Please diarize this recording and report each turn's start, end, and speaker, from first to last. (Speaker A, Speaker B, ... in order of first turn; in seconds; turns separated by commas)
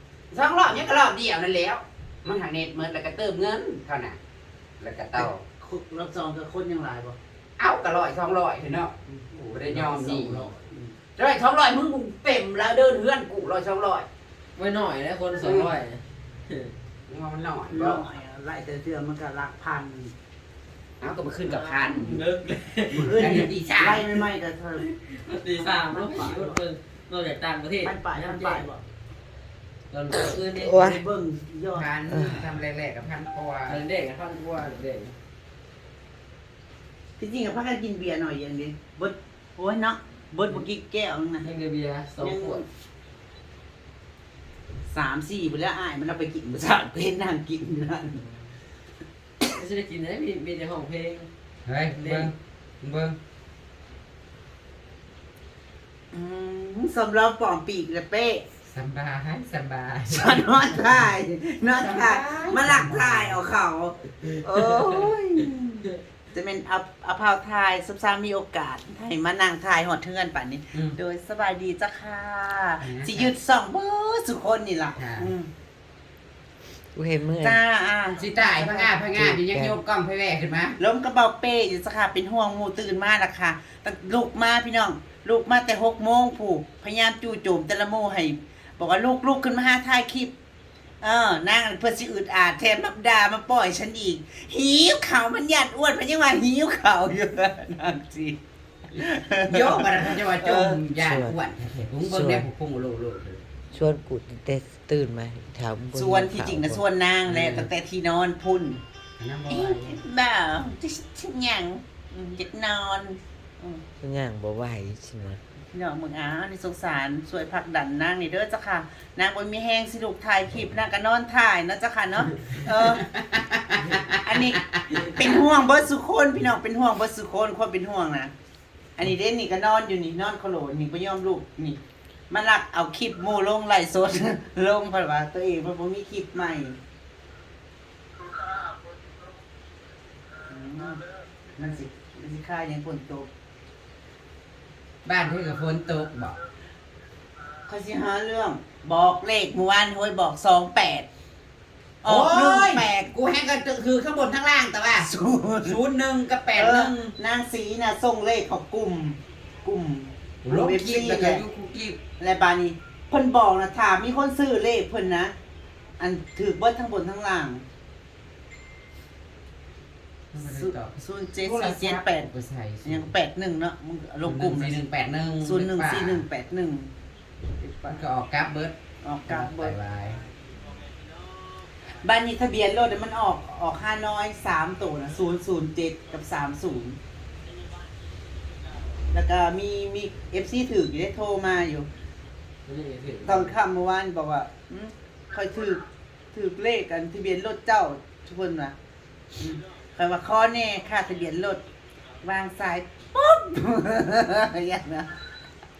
Speaker A: 0.3-4.2, Speaker A: 4.8-5.4, Speaker B: 5.2-7.2, Speaker A: 7.6-10.5, Speaker B: 9.1-10.9, Speaker A: 11.2-14.1, Speaker C: 14.6-16.7, Speaker A: 15.3-15.7, Speaker A: 17.1-18.0, Speaker B: 17.7-20.1, Speaker A: 21.0-22.2, Speaker C: 21.4-23.3, Speaker B: 22.9-24.8, Speaker A: 23.1-24.0, Speaker C: 24.8-28.6, Speaker B: 25.7-26.6, Speaker B: 27.8-28.8, Speaker C: 29.9-31.0, Speaker D: 30.4-31.0, Speaker B: 30.8-31.9, Speaker A: 31.7-33.8, Speaker D: 32.1-32.5, Speaker C: 33.6-35.1, Speaker B: 37.2-41.5, Speaker C: 41.4-42.6, Speaker B: 42.2-42.6, Speaker B: 44.9-48.2, Speaker C: 49.4-51.3, Speaker A: 51.6-53.1, Speaker C: 51.9-52.3, Speaker B: 56.1-58.4, Speaker A: 58.7-60.4, Speaker B: 60.1-75.5, Speaker A: 61.8-63.4, Speaker A: 70.7-71.0, Speaker A: 72.8-73.3, Speaker A: 75.0-75.3, Speaker D: 76.9-77.6, Speaker B: 77.4-78.9, Speaker A: 78.2-80.8, Speaker D: 79.1-79.8, Speaker B: 80.8-90.3, Speaker B: 91.0-98.4, Speaker B: 98.9-100.8, Speaker A: 99.5-103.4, Speaker D: 101.0-101.3, Speaker D: 102.0-102.5, Speaker D: 103.7-106.8, Speaker B: 105.9-108.8, Speaker A: 107.2-107.7, Speaker A: 109.2-110.0, Speaker B: 109.5-113.8, Speaker D: 114.0-115.4, Speaker B: 115.7-123.0, Speaker A: 122.8-124.8, Speaker B: 124.1-128.3, Speaker B: 129.0-136.8, Speaker B: 140.5-141.0, Speaker B: 141.6-143.3, Speaker A: 145.0-146.3, Speaker B: 147.7-151.1, Speaker B: 152.0-152.9, Speaker A: 152.0-155.1, Speaker B: 154.9-155.8, Speaker A: 155.6-157.1, Speaker B: 156.5-161.4, Speaker A: 160.4-162.0, Speaker B: 162.2-165.3, Speaker B: 166.0-167.6, Speaker A: 170.3-173.1, Speaker B: 170.4-172.3, Speaker B: 172.8-174.8, Speaker A: 174.2-176.2, Speaker B: 175.4-176.9, Speaker B: 177.6-178.0, Speaker A: 177.9-178.7, Speaker B: 179.0-179.8, Speaker A: 179.3-180.2, Speaker B: 182.0-187.0, Speaker B: 189.1-191.9, Speaker C: 192.7-193.5, Speaker B: 193.2-195.8, Speaker B: 196.3-198.7, Speaker B: 199.4-201.6, Speaker B: 202.2-205.1